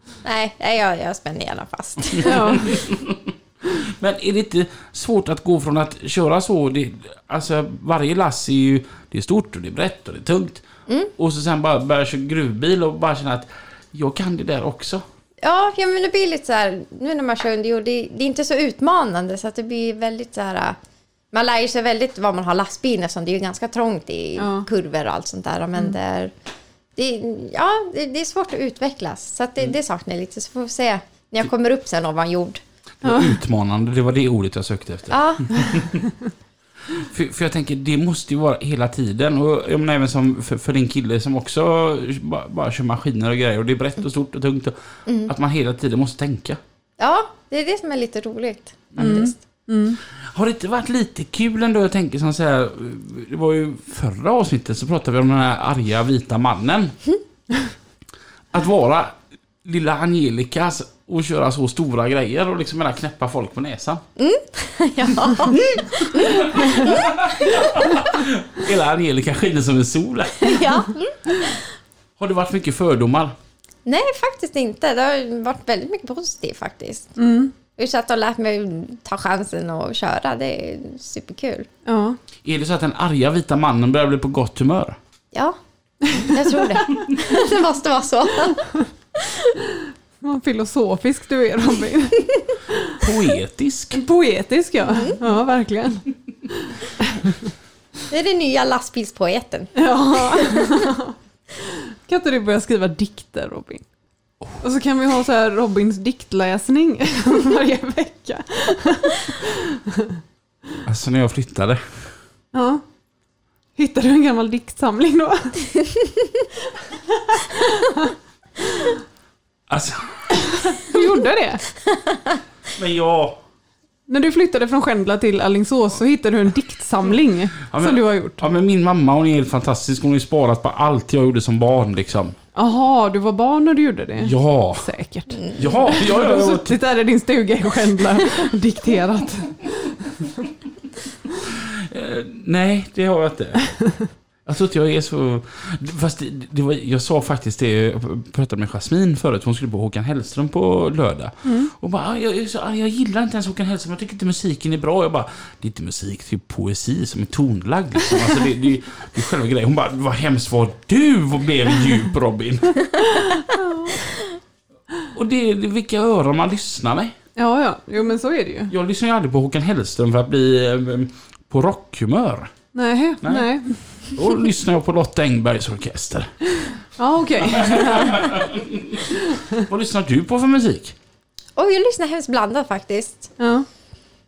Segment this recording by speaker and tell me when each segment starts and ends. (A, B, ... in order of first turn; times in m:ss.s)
0:00.2-0:02.7 A
0:02.2-0:10.6 B
0:02.2-0:02.6 C
0:11.2-0:15.0 B
0:15.4-0:20.8 A
0:21.3-0:26.3 A
0:24.4-0:24.7 C
0:27.0-0:32.6 A
0:33.0-0:36.1 B
0:33.0-0:33.3 C
0:35.1-0:35.8 A
0:36.9-0:44.7 B
0:45.0-0:45.3 A
0:45.3-0:46.6 B
0:47.0-0:49.3 A
0:49.0-0:50.0 C
0:50.3-0:57.0 B
0:58.5-1:04.0 B
1:04.2-1:08.0 A
1:05.5-1:10.7 B
1:10.4-1:11.7 A
1:12.2-1:13.3 B
1:13.9-1:17.2 A
1:17.2-1:17.5 C
1:17.7-1:21.7 A
1:21.9-1:22.2 C
1:22.4-1:25.0 B
1:26.1-1:29.6 A
1:30.2-1:33.0 C
1:33.0-1:34.0 B
1:33.9-1:37.3 C
1:34.9-1:35.2 A
1:38.1-1:40.9 A
1:39.8-1:43.8 C
1:44.6-1:50.2 C
1:50.8-1:51.8 B
1:52.5-1:52.8 C
1:53.8-1:55.7 C
1:57.2-1:58.1 C
1:59.7-2:00.3 B
2:00.4-2:01.6 C
2:02.8-2:03.4 B
2:04.1-2:08.4 C
2:07.7-2:12.4 B
2:12.5-2:20.3 C
2:14.2-2:14.9 B
2:15.5-2:16.8 B
2:21.4-2:23.6 B
2:24.4-2:42.9 B
2:31.4-2:31.7 C
2:43.2-2:44.0 C
2:45.1-2:47.2 B
2:47.4-2:48.7 C
2:48.7-2:52.5 B
2:52.7-2:54.2 C
2:53.2-2:53.5 B
2:54.2-2:56.3 B
2:56.6-2:58.4 C
2:57.5-3:01.0 B
3:01.6-3:03.3 A
3:03.4-3:03.6 C